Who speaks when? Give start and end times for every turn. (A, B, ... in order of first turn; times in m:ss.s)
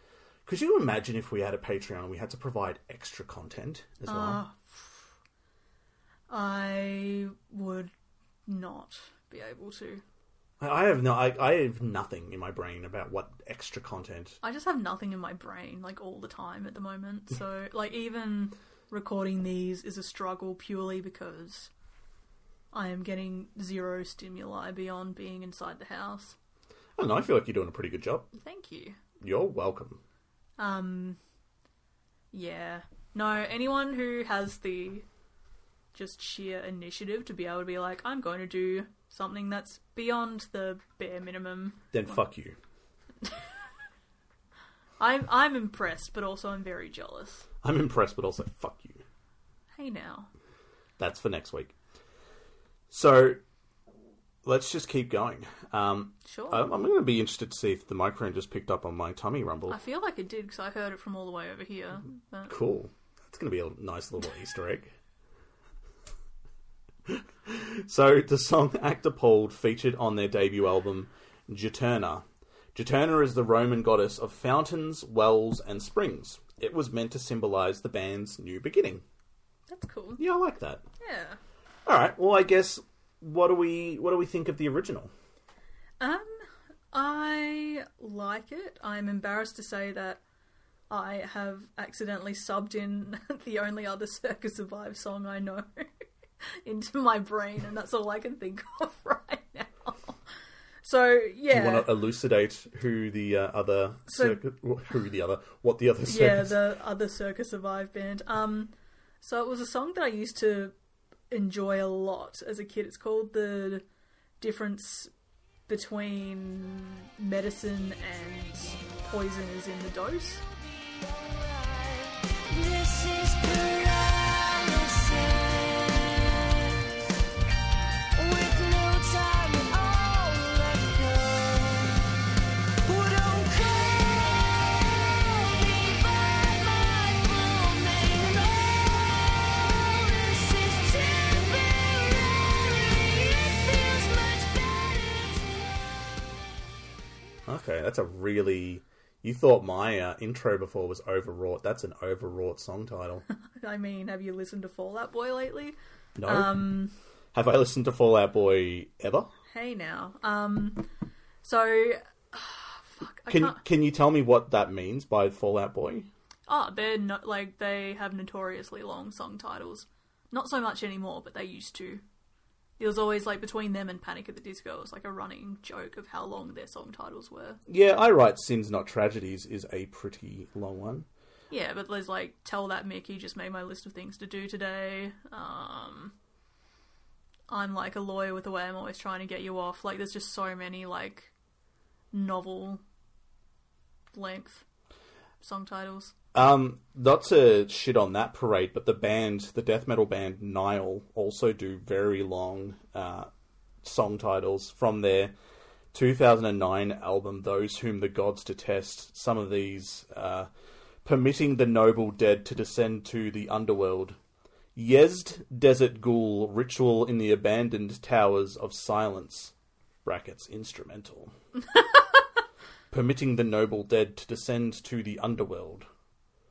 0:00.4-0:04.4 A
0:04.1-0:05.0 B
0:06.3-0:07.9 B
0:08.4-0:10.0 B
0:10.6-0:14.4 A
0:14.4-0:21.7 B
0:22.7-0:26.4 B
0:27.0-0:28.3 A
0:28.4-0:29.0 B
0:29.2-0:30.0 A
0:30.6-0:31.2 B
0:32.3-0:35.0 B
0:35.9-0:41.9 B
0:41.9-0:42.6 A
0:45.0-0:47.5 B
0:47.6-0:49.0 A
0:49.7-0:50.3 B
0:51.0-0:51.7 A
0:52.9-0:53.4 A
0:54.4-0:59.8 A
0:56.2-0:56.7 B
0:59.7-1:02.6 B
1:02.5-1:04.9 A
1:07.0-1:12.2 A
1:12.7-1:19.0 A
1:19.7-1:20.2 B
1:20.2-1:20.8 A
1:21.0-1:21.4 B
1:21.8-1:25.1 A
1:26.0-1:26.3 B
1:26.9-1:30.2 B
1:30.9-1:36.1 B
1:36.6-1:40.2 B
1:40.8-1:41.9 B
1:41.5-1:46.6 A
1:44.1-1:44.4 B
1:46.0-1:50.7 B
1:51.3-1:53.8 B
1:54.4-1:55.1 B
1:55.7-2:00.4 B
2:00.6-2:07.2 C
2:08.1-2:12.1 C
2:12.8-2:25.8 C
2:27.4-2:33.2 A
2:33.5-2:36.9 B
2:36.2-2:39.3 A
2:39.5-2:40.9 B
2:41.4-2:43.6 B
2:43.3-2:46.1 A
2:46.5-2:52.0 B
2:52.8-2:57.6 B
2:57.7-3:01.1 A
3:01.5-3:06.1 B
3:07.5-3:11.3 B
3:12.1-3:12.8 B
3:14.1-3:14.6 B
3:15.4-3:16.1 B
3:16.3-3:23.3 A
3:23.8-3:25.3 A
3:25.9-3:30.5 A
3:31.0-3:34.2 A
3:34.8-3:39.5 A
3:40.0-3:41.3 A
3:42.9-3:45.9 A